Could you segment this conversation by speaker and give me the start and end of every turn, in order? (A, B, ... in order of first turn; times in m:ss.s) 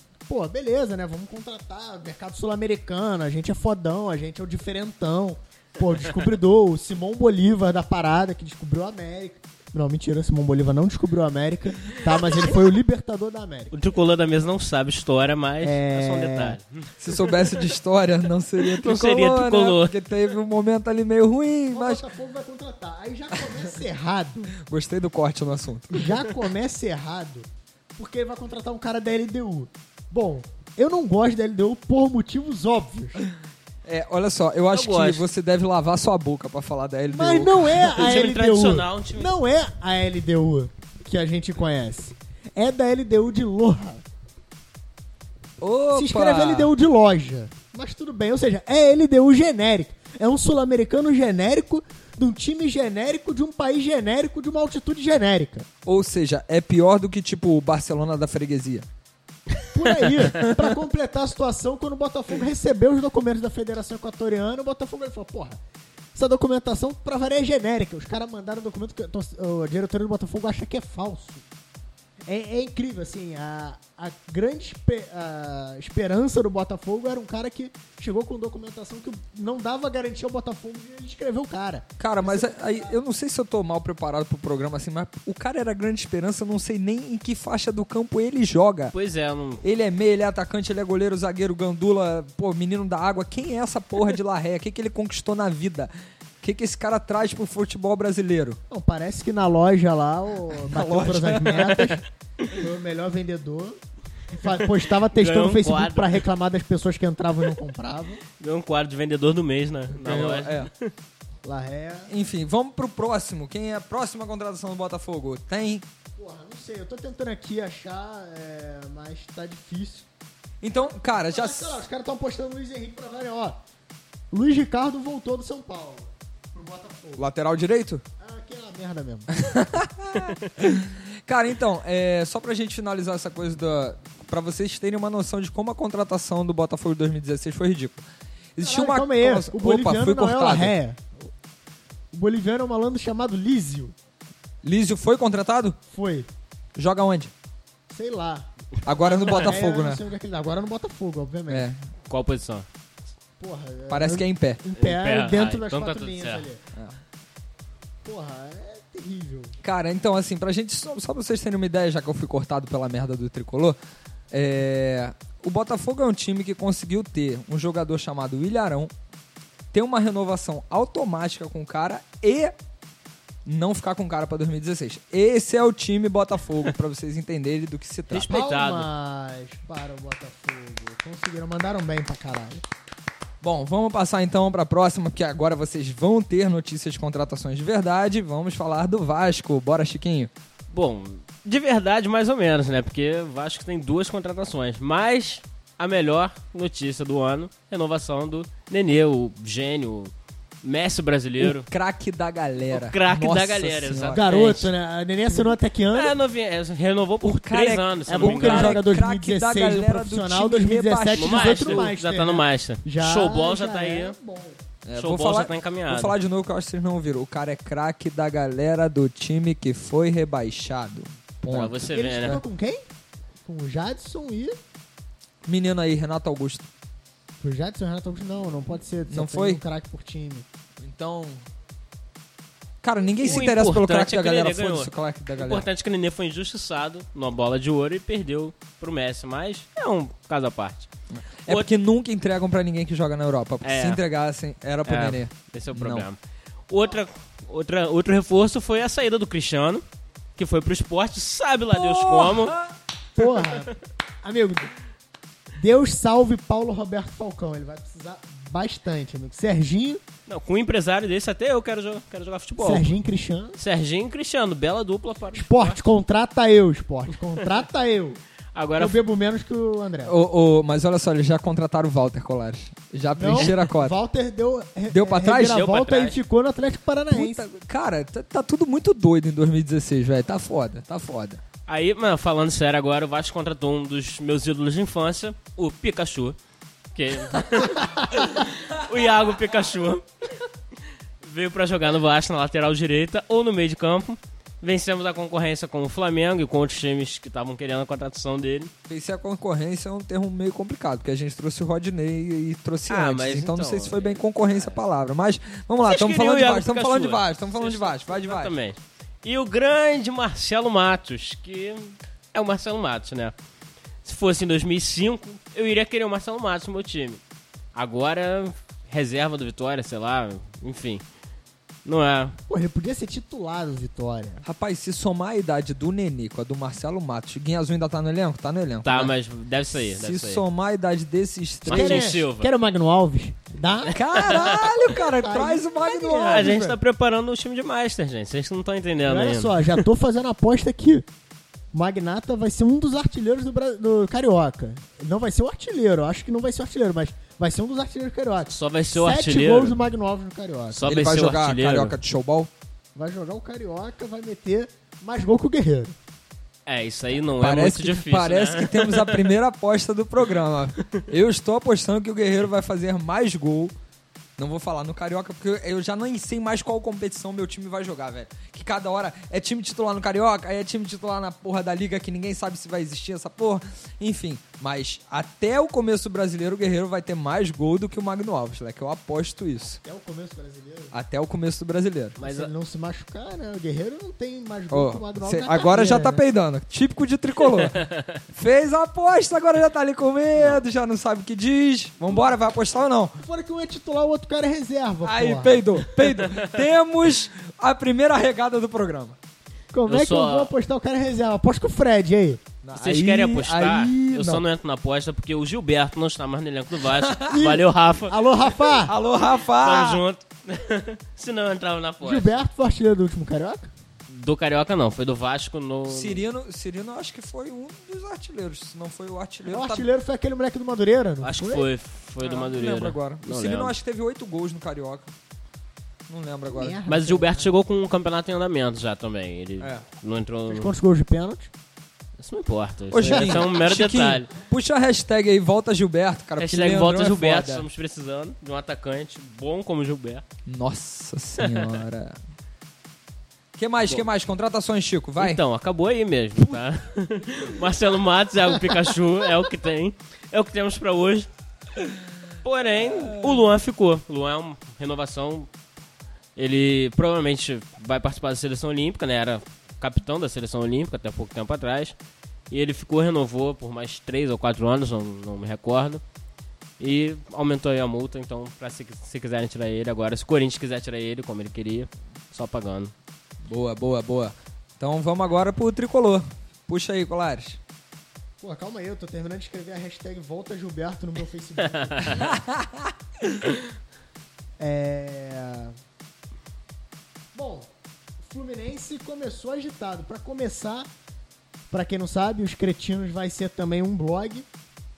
0:00.3-0:13.8 A
0:13.7-0:17.3 B
0:15.6-0:16.6 A
0:17.0-0:22.0 C
0:18.6-0:19.9 B
0:21.7-0:24.5 A
0:24.6-0:26.1 C
0:25.9-0:33.2 A
0:33.8-0:37.9 C
0:34.7-0:35.2 B
0:37.1-0:44.0 A
0:37.9-0:39.3 B
0:45.6-0:46.7 C
0:45.9-0:55.7 A
0:55.8-0:58.9 C
0:59.7-1:05.6 A
1:06.1-1:11.4 A
1:12.2-1:22.9 A
1:22.0-1:28.9 C
1:28.9-1:29.6 B
1:29.6-1:35.9 C
1:36.4-1:38.6 C
1:38.7-1:43.8 A
1:40.5-1:41.9 C
1:44.3-1:48.2 A
1:44.9-1:46.2 B
1:48.4-1:50.9 B
1:49.9-1:50.7 C
1:51.4-1:52.1 A
1:52.1-1:55.8 C
1:56.2-2:00.0 A
2:00.6-2:01.8 C
2:01.2-2:03.6 A
2:04.3-2:07.3 A
2:07.2-2:08.0 C
2:08.2-2:09.6 A
2:09.4-2:18.0 C
2:18.6-2:20.7 C
2:18.6-2:21.1 A
2:22.1-2:23.9 A
2:24.6-2:25.8 C
2:25.9-2:26.3 A
2:26.7-2:27.3 C
2:27.9-2:31.7 A
2:28.8-2:30.0 C
2:29.1-2:29.5 B
2:31.5-2:31.8 C
2:32.1-2:32.6 B
2:33.4-2:36.6 A
2:33.9-2:34.6 C
2:34.8-2:36.5 B
2:36.7-2:37.0 C
2:38.0-2:39.5 A
2:39.6-2:43.8 C
2:44.3-2:48.9 C
2:49.7-2:52.5 C
2:53.4-2:58.3 C
2:58.1-2:58.9 B
2:58.2-3:02.6 A
3:03.4-3:10.3 C
3:10.7-3:20.1 B
3:20.6-3:21.7 B
3:21.4-3:24.2 C
3:22.7-3:24.7 B
3:24.1-3:26.1 A
3:25.9-3:28.8 B
3:27.2-3:31.9 C
3:28.1-3:34.6 A
3:31.2-3:34.1 B
3:34.8-3:41.9 C
3:34.9-3:36.1 B
3:41.4-3:42.4 B
3:41.9-3:42.9 A
3:43.4-3:44.6 A
3:45.4-3:46.7 C
3:47.4-3:50.4 A
3:49.1-3:49.6 C
3:50.8-3:51.4 C
3:52.8-3:55.7 C
3:53.2-4:00.9 B
4:01.1-4:06.1 C
4:03.6-4:04.0 B
4:04.8-4:06.2 B
4:06.7-4:09.8 B
4:10.4-4:12.6 B
4:11.7-4:12.7 C
4:13.1-4:14.7 A
4:15.6-4:20.0 A
4:20.3-4:22.9 B
4:22.6-4:23.6 A
4:23.6-4:25.8 B
4:25.3-4:28.2 A
4:28.5-4:29.0 B
4:28.8-4:30.1 A
4:30.0-4:34.0 C
4:33.1-4:37.4 A
4:34.9-4:35.6 C
4:35.3-4:36.2 B
4:37.1-4:41.4 C
4:41.7-4:46.4 B
4:46.9-4:50.0 B
4:51.2-4:58.7 B
4:58.9-5:08.5 C
5:02.9-5:04.8 B
5:05.8-5:13.3 B
5:14.0-5:17.2 B
5:17.7-5:21.0 B
5:21.8-5:22.4 B
5:22.5-5:24.4 A
5:24.4-5:29.1 C
5:28.8-5:30.4 B
5:29.7-5:32.1 C
5:31.6-5:32.5 B
5:31.6-5:36.5 A
5:33.9-5:36.8 C
5:34.1-5:34.7 B
5:36.2-5:39.8 B
5:39.0-5:41.0 A
5:41.7-5:50.9 A
5:48.5-5:49.8 B
5:50.7-5:52.0 B
5:50.8-5:52.5 C
5:52.9-5:55.9 A
5:56.6-5:59.3 B
5:57.2-6:03.7 C
6:04.4-6:19.8 C
6:19.6-6:20.9 A
6:20.9-6:22.2 C
6:22.2-6:22.5 B
6:22.2-6:26.2 A
6:24.7-6:33.2 C
6:27.6-6:28.0 B
6:33.2-6:35.6 A
6:35.0-6:39.2 C
6:36.0-6:36.5 B
6:39.7-6:42.4 A
6:39.9-6:40.5 B
6:42.6-6:44.4 C
6:42.7-6:48.2 B
6:46.8-6:47.4 C
6:47.3-6:48.9 A
6:48.8-6:50.0 C
6:49.5-6:52.4 B
6:52.0-6:53.7 A
6:54.1-6:56.2 B
6:55.9-6:59.9 C
6:59.5-7:01.7 A
7:01.2-7:03.7 B
7:02.2-7:05.1 C
7:06.1-7:06.8 C
7:06.5-7:07.5 A
7:06.9-7:10.7 B
7:09.6-7:09.8 C
7:10.5-7:11.5 A
7:12.2-7:14.3 B
7:12.9-7:17.6 C
7:13.1-7:13.4 A
7:16.4-7:20.2 B
7:20.4-7:22.2 C
7:21.4-7:21.7 B
7:23.5-7:25.4 C
7:25.2-7:31.3 B
7:32.4-7:35.5 B
7:32.8-7:33.5 C
7:36.4-7:42.0 B
7:42.5-7:46.0 B
7:46.8-7:52.9 B
7:53.4-7:57.6 C
7:58.4-8:02.4 A
8:01.8-8:02.1 B
8:02.2-8:02.9 C
8:04.6-8:05.8 A
8:07.3-8:07.7 A
8:08.2-8:10.9 A
8:11.7-8:14.5 A